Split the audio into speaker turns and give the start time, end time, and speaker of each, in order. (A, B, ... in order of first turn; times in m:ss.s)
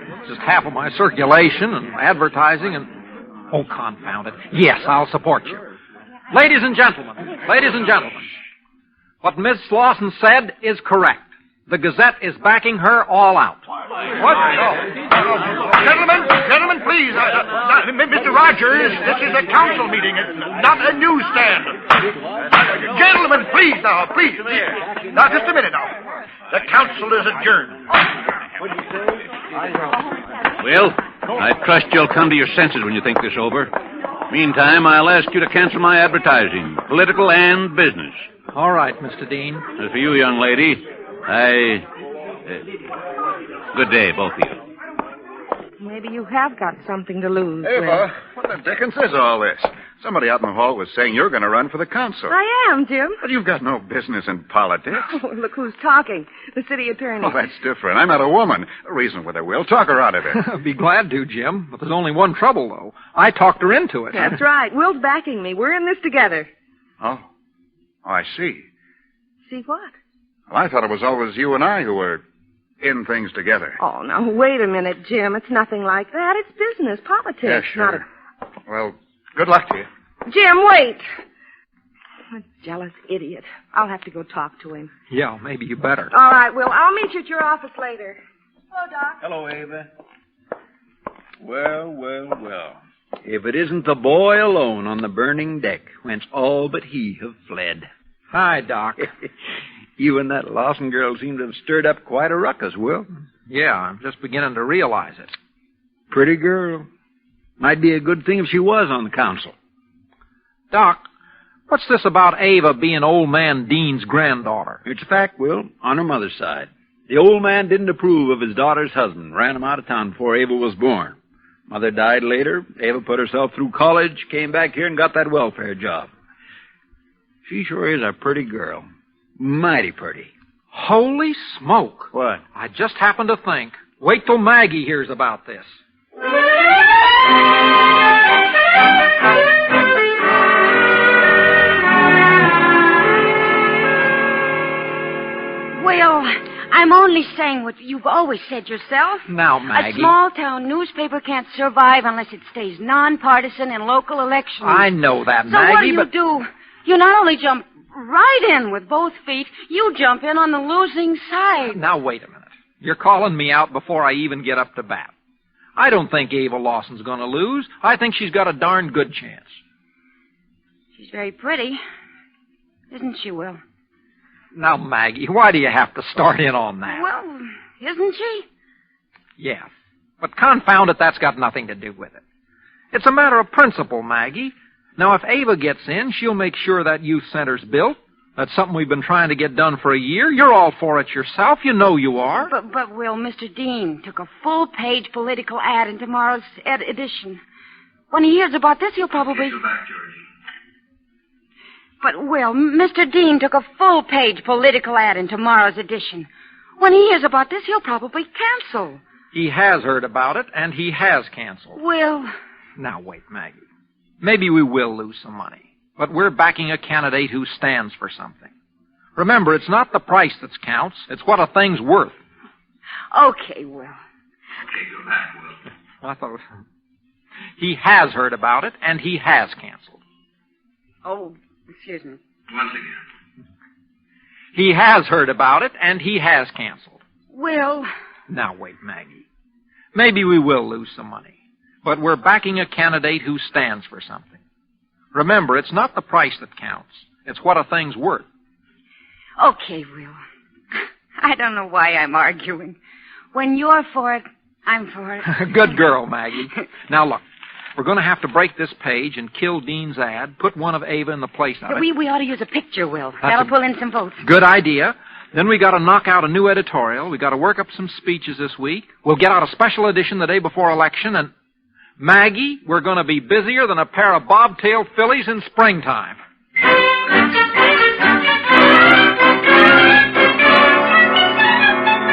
0:00.2-0:02.9 A
0:03.5-0:05.6 A
0:06.3-0:08.2 A
0:09.2-0:13.6 A
0:14.2-0:14.5 A
0:14.6-0:21.8 B
0:22.5-0:25.9 B
0:26.5-0:27.8 B
0:30.6-0:33.7 C
0:34.3-0:38.2 C
0:38.5-0:39.6 A
0:39.8-0:41.9 C
0:43.7-0:44.6 C
0:45.8-0:48.1 D
0:47.6-0:48.1 E
0:48.2-0:48.9 F
0:48.7-0:52.4 E
0:52.3-0:53.2 D
0:53.4-0:55.0 E
0:54.9-0:57.5 D
0:57.2-0:57.6 F
0:57.3-1:00.4 E
1:00.2-1:04.4 A
1:04.1-1:06.5 D
1:08.0-1:08.6 E
1:09.5-1:09.9 D
1:10.5-1:12.2 E
1:12.8-1:13.8 E
1:13.8-1:18.0 D
1:17.4-1:18.0 E
1:18.7-1:19.8 E
1:20.3-1:21.0 D
1:22.3-1:24.9 D
1:25.1-1:26.1 A
1:26.1-1:28.2 D
1:28.7-1:29.1 D
1:29.2-1:29.9 F
1:31.4-1:37.9 F
1:38.3-1:39.1 A
1:40.0-1:43.1 F
1:43.5-1:45.3 A
1:46.1-1:46.9 F
1:47.6-1:49.5 F
1:50.7-1:51.0 A
1:51.7-1:54.8 A
1:54.8-2:01.2 F
2:01.7-2:06.1 F
2:07.4-2:08.9 F
2:09.4-2:10.3 F
2:10.7-2:15.8 A
2:25.8-2:34.9 G
2:29.3-2:30.1 A
2:34.6-2:36.1 A
2:35.5-2:41.8 G
2:41.6-2:45.1 A
2:45.8-2:49.6 A
2:51.0-2:51.8 G
2:52.9-2:53.6 G
2:54.6-2:57.1 A
2:56.9-2:58.5 G
2:59.4-2:59.7 A
3:00.2-3:02.2 A
3:02.9-3:12.5 A
3:12.5-3:17.4 G
3:18.1-3:19.7 G
3:22.0-3:26.3 G
3:26.8-3:29.0 G
3:29.3-3:31.8 A
3:31.8-3:32.3 G
3:32.8-3:33.6 A
3:34.2-3:38.5 A
3:39.2-3:42.2 A
3:43.1-3:44.0 G
3:46.0-3:46.4 A
3:47.6-3:50.0 A
3:51.0-3:52.2 G
3:54.5-3:57.0 A
3:57.3-3:57.9 G
3:58.3-3:59.2 A
3:59.9-4:01.3 A
4:01.8-4:04.4 A
4:05.1-4:08.2 A
4:09.4-4:10.2 G
4:10.7-4:12.8 G
4:13.3-4:15.7 G
4:15.3-4:17.2 A
4:17.8-4:21.9 A
4:21.7-4:24.2 G
4:23.2-4:23.5 A
4:24.2-4:31.3 A
4:32.0-4:36.2 A